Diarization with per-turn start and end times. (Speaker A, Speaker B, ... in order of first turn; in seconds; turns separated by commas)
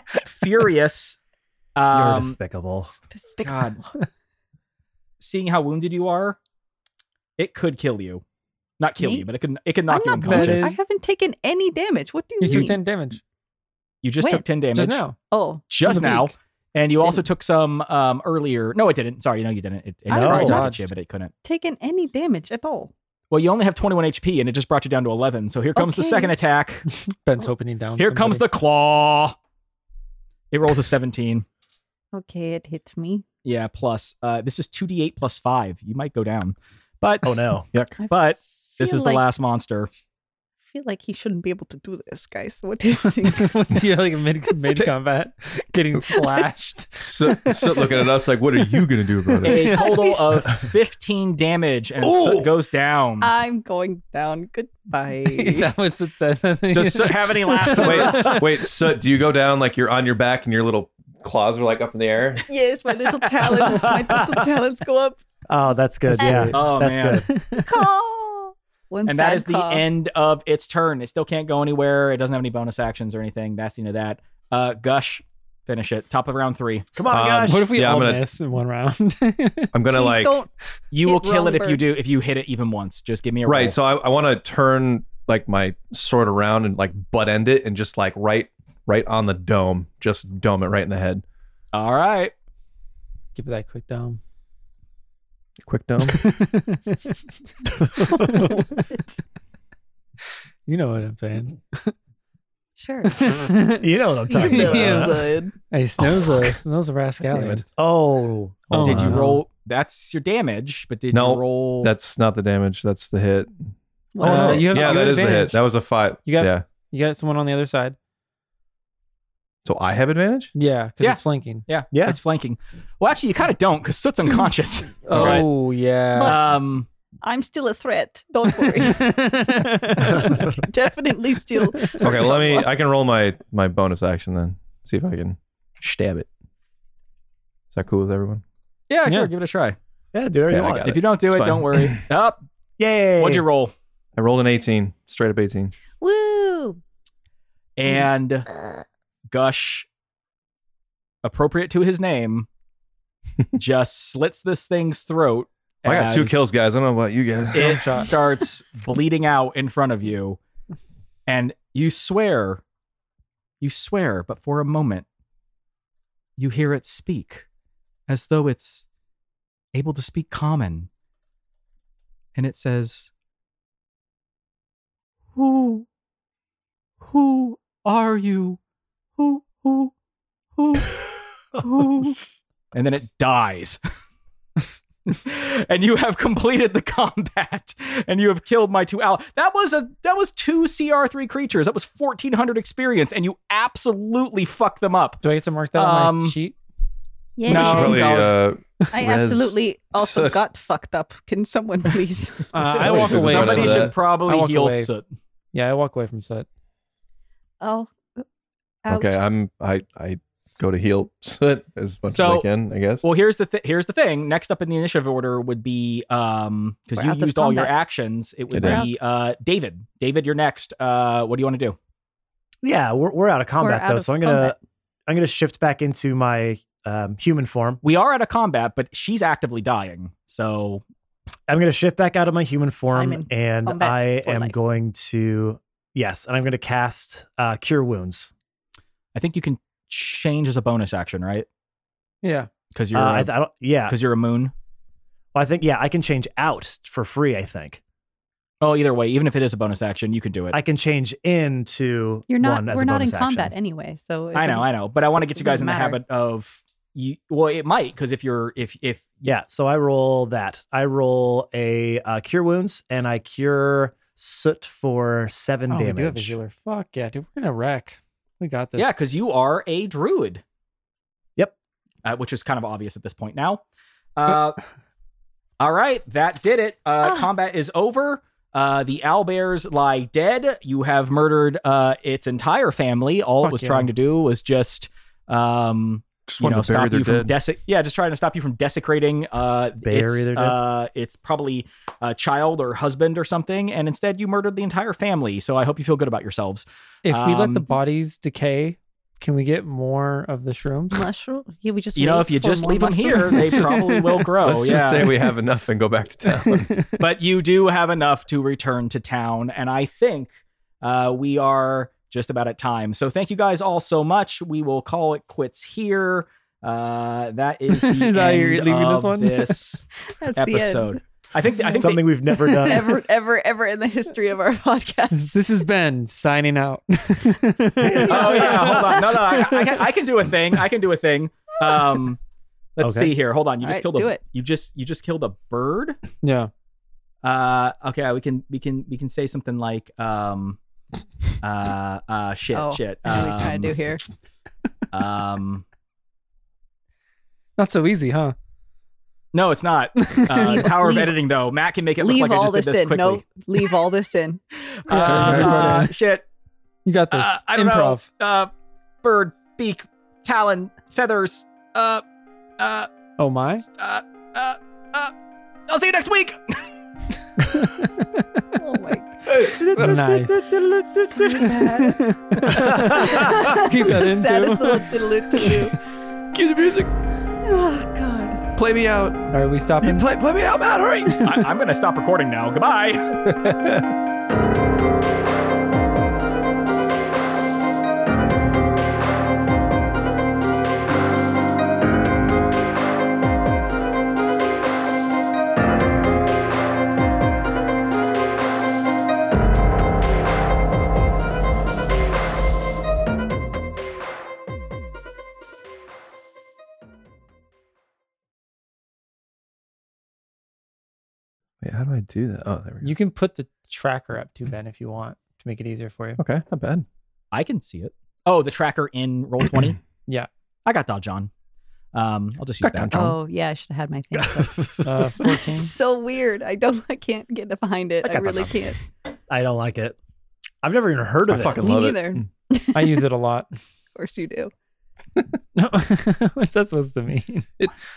Speaker A: 0.2-1.2, Speaker A: 1.8-2.4, Speaker B: 1.9-2.9, Speaker C: 3.1-3.8, Speaker A: 3.4-3.8, Speaker A: 5.2-6.4, Speaker A: 7.4-8.2, Speaker A: 8.8-10.8, Speaker C: 9.0-9.3, Speaker C: 9.9-12.8, Speaker D: 10.1-10.8, Speaker D: 12.4-13.2, Speaker A: 12.4-12.7, Speaker A: 14.0-15.0, Speaker C: 14.2-14.4, Speaker D: 14.7-15.2, Speaker C: 15.2-16.2, Speaker A: 15.7-21.3, Speaker D: 15.8-16.3, Speaker B: 20.1-20.6, Speaker D: 20.2-20.9, Speaker C: 20.2-20.6, Speaker C: 21.4-22.9, Speaker A: 23.3-26.9, Speaker C: 25.8-26.4, Speaker D: 26.9-28.5, Speaker A: 28.0-29.4, Speaker A: 30.5-31.5, Speaker C: 32.1-33.2, Speaker A: 33.5-37.4, Speaker B: 37.2-37.6, Speaker A: 38.1-39.9, Speaker C: 38.8-39.2, Speaker C: 40.7-43.8, Speaker D: 43.2-50.1, Speaker C: 46.1-46.4, Speaker E: 47.0-49.7, Speaker A: 49.4-53.3, Speaker C: 49.6-50.7, Speaker E: 52.0-52.5, Speaker C: 53.2-55.7, Speaker D: 55.3-58.3, Speaker A: 56.7-58.5, Speaker E: 57.8-62.5, Speaker B: 58.1-58.4, Speaker C: 62.5-65.2, Speaker B: 63.5-64.4, Speaker B: 65.5-67.3, Speaker D: 66.2-66.7, Speaker C: 66.2-66.5, Speaker A: 66.5-67.2, Speaker D: 67.2-67.8, Speaker C: 67.7-69.9, Speaker A: 69.1-76.9, Speaker B: 77.0-77.7, Speaker E: 77.1-78.2, Speaker D: 77.4-79.7, Speaker E: 79.7-80.4, Speaker C: 79.9-80.5, Speaker A: 80.9-83.8, Speaker C: 81.0-81.8, Speaker E: 83.5-91.2, Speaker A: 91.7-92.3, Speaker D: 93.3-94.2, Speaker E: 95.7-96.4, Speaker D: 96.1-97.2, Speaker B: 97.9-98.5, Speaker D: 98.0-98.9, Speaker C: 98.1-99.0, Speaker D: 100.7-102.0, Speaker C: 102.8-103.2, Speaker D: 103.0-107.7, Speaker B: 103.8-105.3, Speaker C: 104.3-105.5, Speaker E: 106.1-106.5, Speaker E: 107.3-107.6, Speaker B: 107.8-108.9, Speaker D: 108.7-109.4, Speaker E: 108.8-109.3, Speaker A: 108.8-111.9, Speaker E: 111.1-113.6, Speaker C: 114.2-115.0, Speaker D: 114.2-115.7, Speaker E: 114.2-116.6, Speaker D: 116.2-118.0, Speaker E: 119.7-120.5, Speaker D: 120.5-121.7, Speaker A: 121.0-125.5, Speaker B: 121.9-122.2, Speaker D: 125.1-126.5, Speaker E: 125.1-125.5, Speaker C: 126.2-126.6, Speaker A: 126.2-126.9, Speaker C: 127.2-132.7, Speaker D: 128.7-130.6, Speaker D: 131.6-132.1, Speaker E: 132.0-136.3, Speaker E: 137.7-138.4, Speaker A: 138.9-139.8, Speaker D: 139.1-139.3, Speaker B: 140.1-141.0, Speaker E: 140.5-142.0, Speaker A: 140.8-142.4, Speaker B: 142.8-143.5, Speaker A: 143.2-143.7, Speaker E: 144.2-145.8, Speaker C: 146.0-146.8, Speaker A: 147.8-148.5, Speaker A: 149.3-149.9, Speaker A: 151.2-152.5, Speaker A: 153.6-156.4, Speaker E: 155.9-157.8, Speaker D: 157.5-158.1, Speaker A: 157.5-160.4, Speaker A: 161.3-162.6, Speaker A: 163.6-165.1, Speaker A: 166.4-167.5, Speaker A: 168.1-168.9, Speaker A: 169.7-170.9, Speaker A: 172.3-173.1, Speaker A: 175.3-175.9, Speaker A: 177.1-178.6, Speaker A: 179.2-179.9, Speaker A: 180.6-181.0, Speaker A: 181.5-182.2, Speaker A: 182.7-183.8, Speaker A: 185.1-195.2, Speaker D: 195.2-196.6, Speaker A: 195.8-196.4, Speaker C: 197.4-198.3, Speaker A: 197.4-198.3, Speaker E: 197.4-200.4, Speaker C: 198.9-202.6, Speaker D: 202.5-204.9, Speaker A: 202.8-205.0, Speaker E: 202.8-203.9, Speaker D: 205.5-206.5, Speaker C: 207.6-208.2, Speaker C: 208.8-209.2, Speaker E: 208.9-213.1, Speaker A: 212.1-212.5, Speaker A: 213.0-221.8, Speaker C: 216.9-217.7, Speaker E: 218.5-218.8, Speaker C: 218.6-218.9, Speaker B: 222.6-224.6, Speaker C: 223.6-224.6, Speaker B: 225.1-227.8, Speaker A: 227.8-230.8, Speaker B: 231.5-238.3, Speaker C: 232.9-234.5, Speaker A: 239.2-241.5, Speaker D: 242.2-242.5, Speaker A: 242.7-243.3, Speaker B: 242.9-244.0, Speaker A: 243.9-244.5, Speaker B: 245.3-247.8, Speaker A: 248.6-250.6, Speaker B: 250.5-253.5, Speaker C: 252.3-256.0, Speaker A: 254.3-259.4, Speaker B: 259.2-266.4, Speaker D: 265.7-268.9, Speaker A: 268.8-270.4, Speaker A: 272.1-273.6, Speaker A: 274.2-274.6, Speaker A: 275.6-297.7, Speaker D: 283.4-283.9, Speaker E: 286.3-287.3, Speaker B: 289.8-290.6, Speaker D: 297.1-301.1, Speaker C: 300.9-304.0, Speaker A: 301.9-305.2, Speaker D: 303.1-304.4, Speaker E: 304.4-306.8, Speaker D: 306.4-307.0, Speaker A: 307.0-322.1, Speaker D: 317.7-319.6, Speaker C: 320.2-321.0, Speaker B: 321.8-323.0, Speaker C: 321.8-325.4, Speaker D: 325.1-329.6, Speaker B: 327.8-329.2, Speaker A: 328.1-332.2, Speaker A: 332.8-336.0, Speaker B: 332.8-333.1, Speaker C: 333.6-334.2, Speaker D: 336.2-336.5, Speaker A: 337.2-340.6, Speaker A: 341.4-343.8, Speaker C: 342.5-344.0, Speaker A: 344.9-345.6, Speaker D: 347.6-348.4, Speaker A: 349.3-353.4, Speaker D: 350.0-351.1, Speaker C: 350.6-351.0, Speaker C: 352.0-354.4, Speaker A: 354.9-356.3, Speaker D: 354.9-355.9, Speaker E: 355.3-355.6, Speaker D: 356.9-358.1, Speaker A: 357.1-358.5, Speaker A: 359.0-362.0, Speaker A: 362.6-362.9, Speaker D: 363.2-363.6, Speaker A: 363.7-365.1, Speaker A: 365.7-366.6, Speaker D: 367.4-368.5, Speaker C: 368.6-370.0, Speaker E: 369.3-371.5, Speaker D: 369.8-370.5, Speaker A: 370.7-371.4, Speaker C: 370.9-372.0, Speaker D: 371.6-375.7, Speaker B: 372.7-373.0, Speaker C: 372.7-375.7, Speaker E: 376.3-376.9, Speaker C: 377.4-378.5, Speaker E: 378.6-379.3, Speaker D: 379.3-380.1, Speaker E: 379.8-381.2, Speaker D: 381.1-381.5, Speaker A: 381.2-383.2, Speaker E: 383.2-383.9, Speaker E: 411.6-412.9, Speaker D: 412.8-416.2, Speaker E: 416.2-416.9, Speaker A: 417.3-419.8, Speaker A: 420.7-421.3, Speaker A: 421.9-423.0, Speaker E: 422.6-423.2, Speaker C: 422.9-428.8, Speaker B: 424.4-424.8, Speaker D: 424.8-425.7, Speaker B: 428.0-428.6, Speaker B: 429.3-430.0, Speaker B: 430.6-431.6, Speaker E: 431.3-432.3, Speaker C: 431.6-433.0, Speaker D: 432.7-433.5, Speaker C: 433.9-434.5, Speaker D: 435.6-437.5